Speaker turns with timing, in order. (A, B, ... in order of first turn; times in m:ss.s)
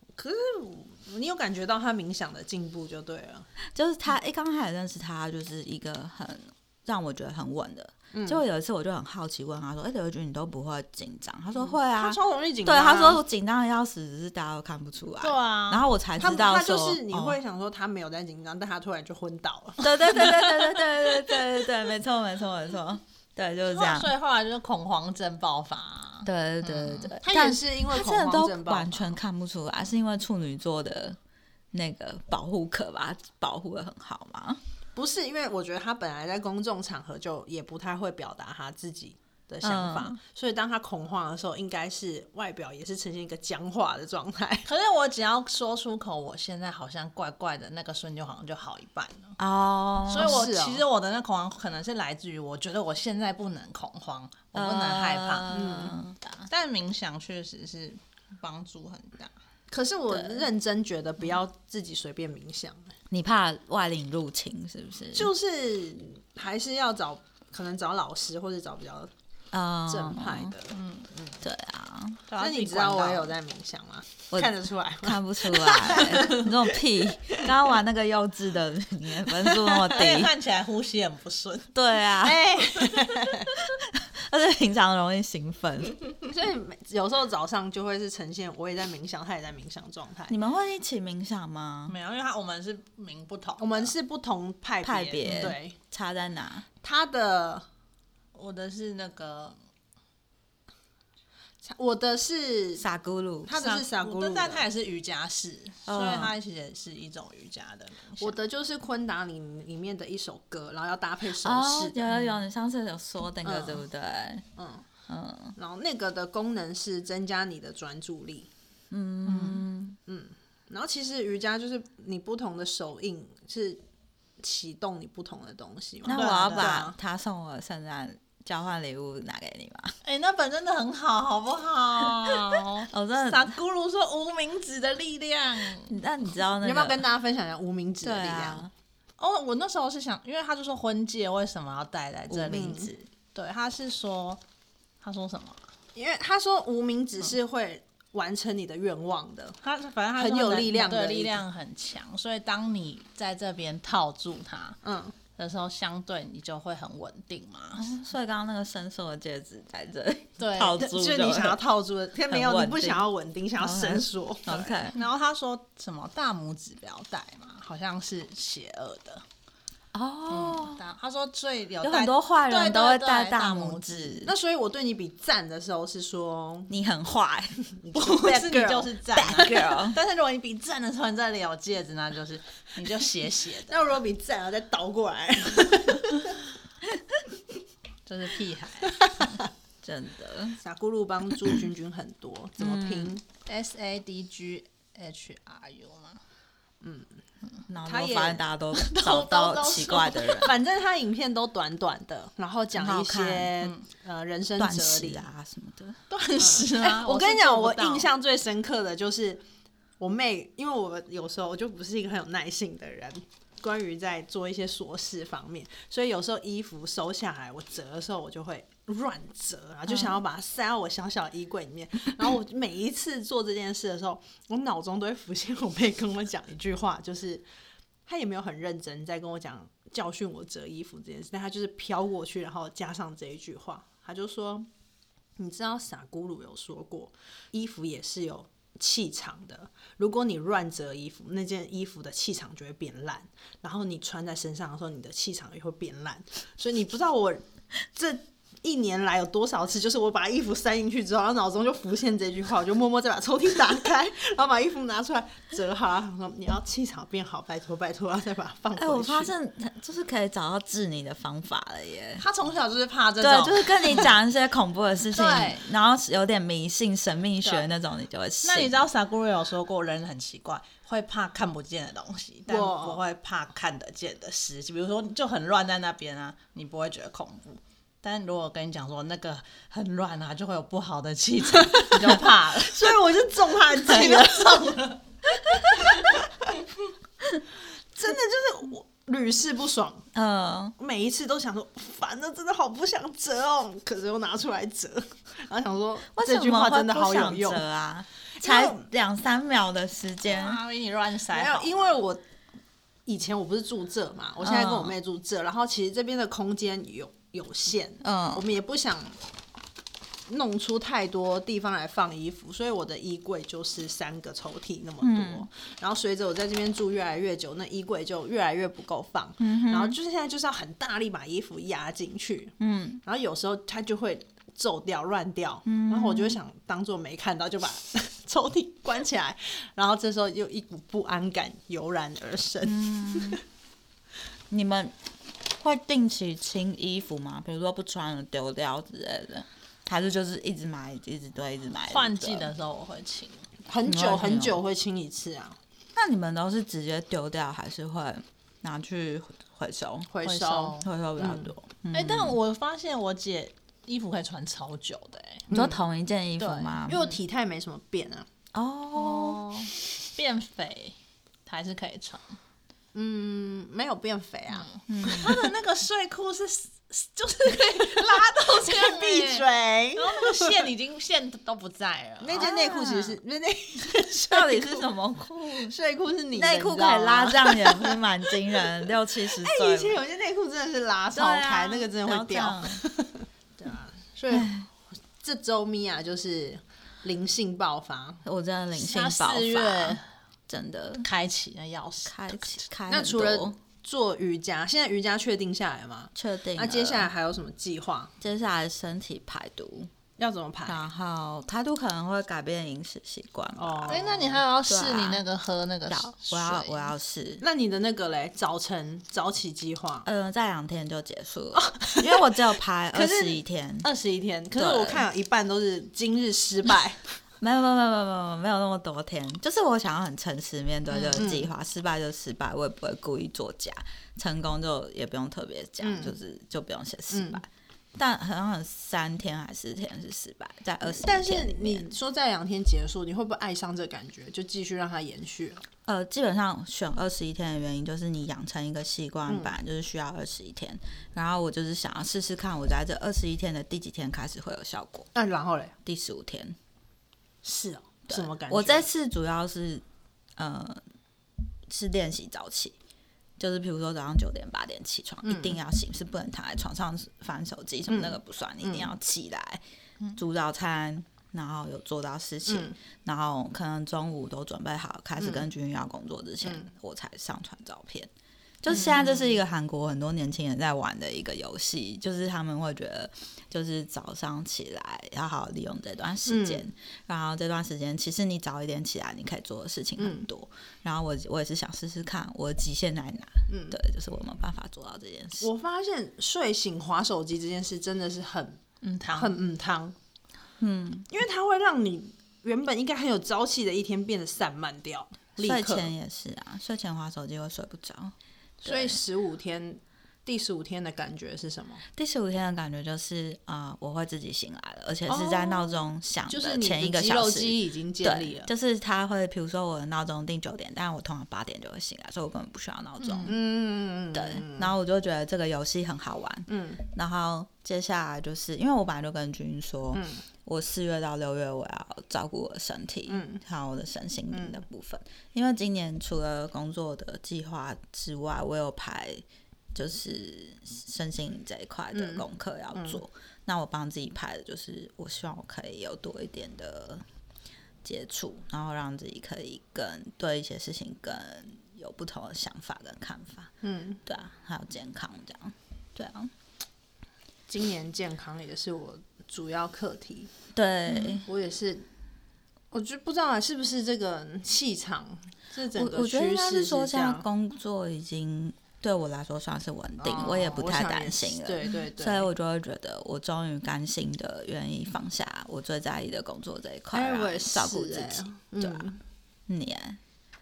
0:00.2-0:03.5 A
0:03.7-0:17.4 B
0:08.1-0:08.4 A
0:11.5-0:13.2 A
0:15.2-0:15.8 C
0:16.2-0:20.4 A
0:19.8-0:24.1 B
0:23.7-0:26.3 C
0:26.2-0:31.2 B
0:26.7-0:29.2 A
0:31.7-0:34.6 B
0:34.9-0:44.7 A
0:39.6-0:40.2 B
0:44.7-0:49.4 C
0:49.4-0:50.4 B
0:50.1-0:55.5 C
0:50.2-0:50.8 A
0:54.5-0:56.5 B
0:55.5-0:56.0 A
0:56.5-0:59.3 C
0:59.7-1:02.9 A
1:00.1-1:00.4 B
1:03.1-1:05.3 B
1:05.1-1:09.1 A
1:09.5-1:10.5 B
1:09.9-1:11.4 A
1:10.7-1:11.1 C
1:11.4-1:12.2 B
1:12.3-1:13.3 C
1:12.4-1:16.5 A
1:14.3-1:20.3 B
1:19.6-1:21.7 C
1:21.7-1:22.6 B
1:22.2-1:23.5 A
1:23.5-1:26.0 B
1:26.2-1:30.4 A
1:30.3-1:31.9 B
1:31.9-1:33.9 C
1:33.6-1:35.8 A
1:34.8-1:36.7 B
1:36.8-1:37.6 A
1:38.3-1:39.6 C
1:41.6-1:42.8 A
1:42.8-1:43.5 B
1:43.4-1:44.7 A
1:43.6-1:48.4 C
1:45.9-1:46.3 B
1:48.2-1:52.0 A
1:51.4-1:54.4 B
1:53.4-1:53.8 A
1:54.6-1:54.8 A
1:55.1-1:55.6 B
1:55.6-1:58.5 A
1:58.9-2:00.0 B
1:59.3-1:59.6 C
2:00.1-2:03.8 A
2:04.4-2:07.0 A
2:06.0-2:10.0 B
2:06.1-2:06.8 C
2:10.0-2:15.9 C
2:12.2-2:13.6 B
2:15.8-2:17.0 B
2:16.6-2:18.6 A
2:18.0-2:18.7 B
2:19.2-2:24.4 C
2:22.3-2:22.6 B
2:22.4-2:22.9 A
2:25.0-2:25.7 C
2:25.9-2:29.6 A
2:29.6-2:34.8 C
2:30.2-2:31.4 A
2:34.8-2:35.2 A
2:35.4-2:37.9 C
2:37.8-2:41.6 B
2:40.4-2:40.8 C
2:40.8-2:44.9 A
2:42.3-2:43.1 B
2:43.6-2:45.0 B
2:44.9-2:49.2 C
2:49.9-2:50.8 B
2:50.3-2:54.2 C
2:51.8-2:54.3 B
2:54.2-2:56.7 A
2:56.7-2:57.6 B
2:57.6-2:59.4 A
2:57.9-3:03.9 C
2:59.1-3:00.0 B
3:03.7-3:06.5 A
3:08.0-3:09.1 C
3:09.0-3:09.3 A
3:09.8-3:10.6 B
3:10.6-3:13.2 A
3:12.6-3:13.2 B
3:13.4-3:16.2 C
3:16.8-3:17.1 A
3:17.7-3:20.5 B
3:17.8-3:18.4 A
3:18.7-3:20.5 C
3:20.4-3:25.2 A
3:22.8-3:23.5 B
3:24.6-3:26.0 B
3:26.1-3:28.1 C
3:26.4-3:29.4 A
3:30.0-3:47.4 A
3:48.0-3:54.7 A
3:55.4-4:19.3 A
4:18.8-4:22.2 B
4:22.2-4:24.1 C
4:22.4-4:24.1 A
4:23.2-4:28.8 B
4:25.1-4:25.6 C
4:28.4-4:43.0 C
4:32.5-4:33.0 A
4:41.9-4:44.9 A
4:43.7-4:45.0 C
4:45.5-4:46.5 A
4:47.9-4:50.1 A
4:50.1-4:50.7 B
4:50.8-4:57.6 A
4:56.1-5:00.6 B
4:58.4-4:58.8 A
5:00.3-5:01.9 C
5:01.3-5:02.2 A
5:03.0-5:09.2 A
5:04.4-5:04.9 B
5:08.0-5:08.4 B
5:10.3-5:33.4 A
5:15.0-5:15.4 B
5:19.4-5:20.0 B
5:22.6-5:23.0 B
5:25.6-5:26.4 B
5:32.6-5:33.4 B
5:34.5-5:34.9 B
5:35.6-5:42.5 B
5:41.9-5:43.5 C
5:43.7-5:45.6 A
5:43.8-5:44.6 B
5:46.0-5:50.1 B
5:50.1-5:51.5 A
5:50.2-5:50.9 C
5:50.8-5:52.4 B
5:51.9-5:55.5 C
5:55.5-5:55.8 A
5:55.5-5:57.0 B
5:56.4-5:57.0 C
5:56.8-5:58.3 A
5:58.5-5:59.5 B
5:59.0-6:02.4 C
6:02.9-6:05.5 A
6:04.5-6:12.5 C
6:04.9-6:05.4 B
6:07.5-6:10.7 A
6:12.2-6:14.9 A
6:12.4-6:13.1 B
6:14.3-6:15.7 B
6:15.7-6:18.0 A
6:16.3-6:20.0 B
6:19.3-6:24.5 A
6:21.1-6:22.8 B
6:24.3-6:24.7 B
6:25.1-6:28.2 A
6:28.2-6:31.1 B
6:28.7-6:30.1 C
6:31.0-6:32.6 C
6:32.0-6:33.6 B
6:32.9-6:38.1 A
6:36.1-6:37.1 B
6:38.2-6:39.9 B
6:40.2-6:40.9 A
6:40.6-6:44.0 B
6:43.6-6:44.4 A
6:43.9-6:46.9 C
6:44.6-6:45.2 B
6:45.9-6:47.4 B
6:47.4-6:50.1 A
6:50.0-6:53.9 B
6:51.6-6:52.4 A
6:52.9-6:57.0 A
6:54.6-6:55.0 B
6:57.4-7:11.9 B
7:00.9-7:01.3 C
7:01.1-7:01.5 A
7:05.8-7:06.2 A
7:07.1-7:07.4 A
7:10.8-7:15.6 A
7:15.8-7:25.1 B
7:19.3-7:19.5 A
7:25.1-7:25.8 A
7:25.8-7:26.6 B
7:27.4-7:28.9 A
7:28.1-7:29.8 B
7:30.4-7:30.8 B
7:31.7-7:32.7 B
7:33.4-7:39.6 B
7:35.2-7:35.6 A
7:37.9-7:38.9 A
7:40.2-7:48.1 B
7:42.5-7:42.8 A
7:45.2-7:45.5 A
7:48.6-8:05.5 B
7:48.7-7:49.4 A
7:56.3-7:56.7 A
8:00.0-8:00.3 A
8:03.5-8:03.8 A
8:05.4-8:10.0 A
8:08.8-8:09.4 C
8:10.6-8:11.1 B
8:11.1-8:15.9 A
8:15.4-8:19.0 B
8:18.6-8:21.8 A
8:21.9-8:33.3 B
8:25.1-8:28.5 A
8:33.0-8:33.3 C
8:33.2-8:34.7 A
8:34.1-8:57.0 B
8:36.5-8:36.8 A
8:39.9-8:40.2 A
8:43.1-8:43.4 A
8:44.3-8:44.6 A
8:51.9-8:52.2 A
8:52.7-8:53.0 A
8:57.8-9:03.5 B
9:03.6-9:04.0 A
9:04.0-9:06.3 B
9:07.5-9:10.3 A
9:10.5-9:11.3 B
9:11.2-9:11.9 A
9:12.7-9:17.3 A
9:15.7-9:28.9 B
9:20.0-9:22.3 A
9:26.9-9:29.0 A
9:29.5-9:30.0 B